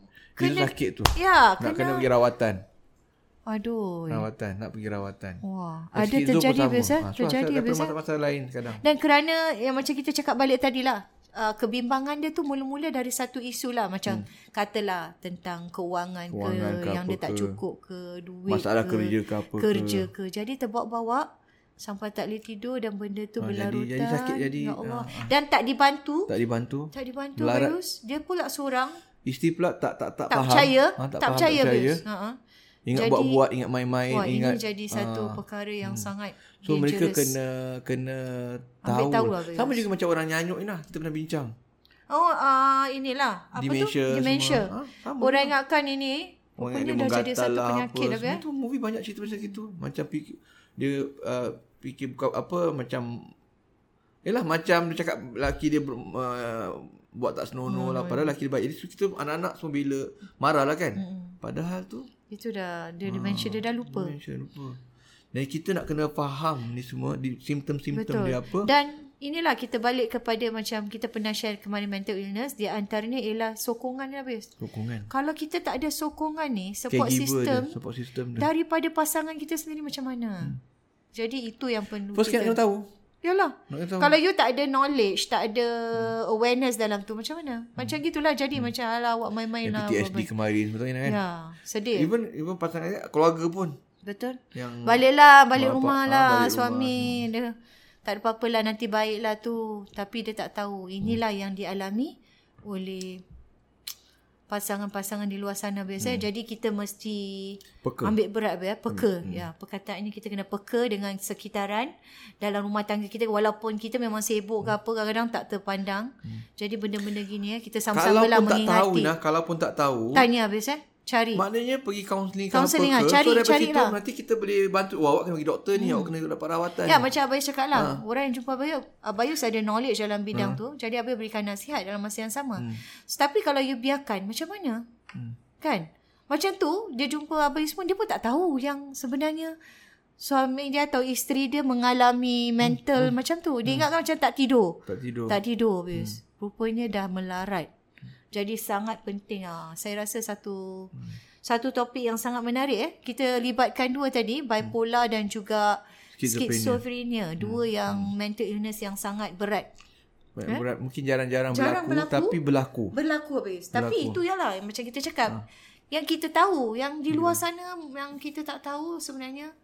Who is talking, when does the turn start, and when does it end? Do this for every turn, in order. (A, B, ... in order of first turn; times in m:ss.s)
0:00.4-0:02.1 A
0:00.4-0:02.6 B
0:03.5-0:04.2 A
0:04.1-0:05.4 B
0:05.4-0:07.9 A
0:05.9-0:08.8 B
0:08.8-0:21.3 A
0:16.3-0:17.6 B
0:18.5-0:20.1 B
0:21.8-0:26.3 A
0:23.4-0:25.3 B
0:26.3-0:27.7 B
0:26.9-0:29.0 A
0:29.2-0:32.0 B
0:30.3-0:32.4 A
0:32.8-0:36.1 B
0:32.9-0:33.4 A
0:34.1-0:37.3 A
0:36.6-0:41.5 B
0:38.8-0:39.8 A
0:42.1-0:48.4 A
0:43.6-0:45.5 B
0:46.6-0:53.3 B
0:49.2-0:49.6 A
0:54.2-1:02.1 B
0:57.7-0:58.3 A
1:01.0-1:01.4 A
1:02.3-1:04.1 A
1:03.0-1:04.8 B
1:05.3-1:08.7 B
1:07.9-1:14.5 A
1:14.6-1:15.1 B
1:15.1-1:17.8 A
1:16.9-1:18.5 B
1:18.4-1:20.6 A
1:21.1-1:22.6 A
1:22.1-1:22.9 B
1:23.2-1:30.3 A
1:23.7-1:24.2 B
1:29.6-1:31.2 B
1:31.0-1:32.1 A
1:31.9-1:33.8 B
1:34.0-1:37.5 A
1:34.5-1:37.3 B
1:38.0-1:43.2 A
1:44.5-1:59.1 A
1:46.0-1:46.2 B
1:47.8-1:48.2 B
1:48.9-1:49.4 B
1:57.9-2:00.2 B
2:00.1-2:01.4 A
2:01.3-2:07.1 B
2:02.5-2:04.0 A
2:05.7-2:06.1 A
2:06.8-2:14.8 A
2:07.7-2:08.0 B
2:10.3-2:10.6 B
2:15.6-2:19.5 A
2:20.2-2:27.7 A
2:22.6-2:23.1 B
2:24.9-2:25.4 B
2:28.3-2:30.9 A
2:31.4-2:39.7 A
2:36.2-2:36.8 B
2:37.4-2:38.1 B
2:40.4-2:42.9 B
2:41.5-2:42.4 A
2:42.9-2:49.5 A
2:43.7-2:44.2 B
2:47.1-2:47.4 B